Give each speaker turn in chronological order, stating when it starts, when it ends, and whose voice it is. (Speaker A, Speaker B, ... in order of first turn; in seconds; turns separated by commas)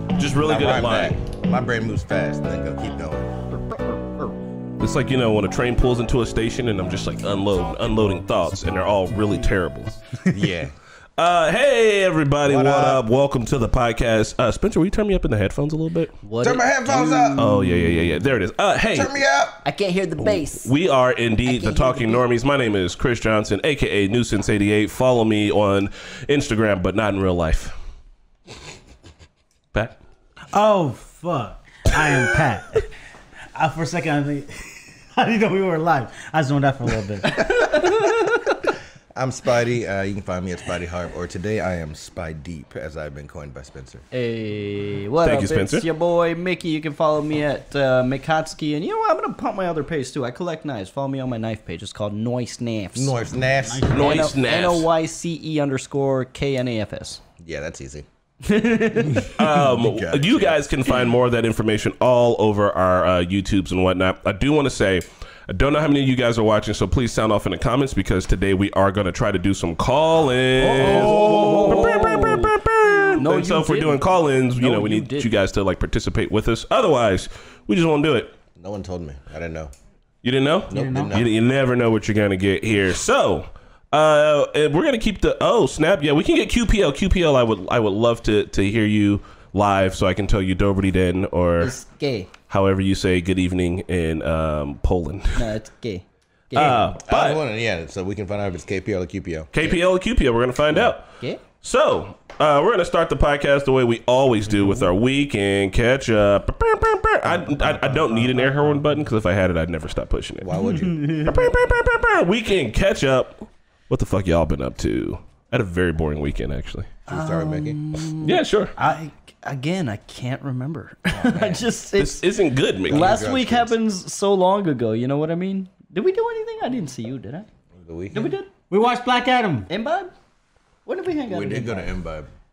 Speaker A: 0.2-1.2, Speaker B: 0.4-3.5, Speaker A: 4.8-9.9, Speaker B: 10.3-10.7, Speaker A: 11.2-16.2, Speaker B: 12.4-13.0, Speaker C: 16.2-18.2, Speaker B: 16.4-17.4, Speaker A: 17.4-19.1, Speaker B: 18.9-19.7, Speaker C: 19.6-20.7, Speaker A: 20.2-27.8, Speaker C: 21.4-22.2, Speaker D: 30.5-32.9, Speaker D: 33.5-37.5, Speaker C: 37.3-38.5, Speaker B: 39.1-44.0, Speaker C: 44.1-53.1, Speaker A: 45.2-45.9, Speaker B: 53.0-54.2, Speaker D: 53.7-54.2, Speaker C: 53.9-57.2, Speaker A: 53.9-54.9, Speaker B: 57.4-58.1, Speaker C: 58.4-59.3, Speaker B: 59.1-60.6, Speaker A: 59.3-78.3, Speaker C: 70.6-72.5, Speaker D: 70.7-72.1, Speaker B: 71.0-71.4, Speaker C: 73.2-75.3, Speaker B: 78.6-79.7, Speaker A: 80.2-91.7, Speaker B: 80.7-81.3, Speaker D: 80.7-81.2, Speaker C: 91.6-92.3, Speaker A: 92.5-95.5, Speaker C: 95.3-96.9, Speaker A: 96.5-97.4, Speaker B: 97.0-99.5, Speaker A: 99.5-101.1, Speaker A: 101.6-110.5, Speaker B: 107.2-109.0, Speaker B: 110.4-111.0, Speaker D: 110.5-111.5, Speaker A: 111.2-116.9, Speaker B: 117.1-117.8, Speaker C: 117.1-118.4, Speaker A: 118.2-118.7, Speaker D: 118.8-119.1, Speaker C: 119.4-122.2, Speaker B: 121.1-121.7, Speaker A: 122.0-123.1, Speaker B: 122.9-123.8, Speaker C: 122.9-127.5, Speaker B: 127.8-128.3, Speaker C: 128.1-128.5, Speaker D: 128.7-129.7, Speaker C: 129.7-130.1, Speaker C: 130.9-131.9, Speaker B: 131.3-132.3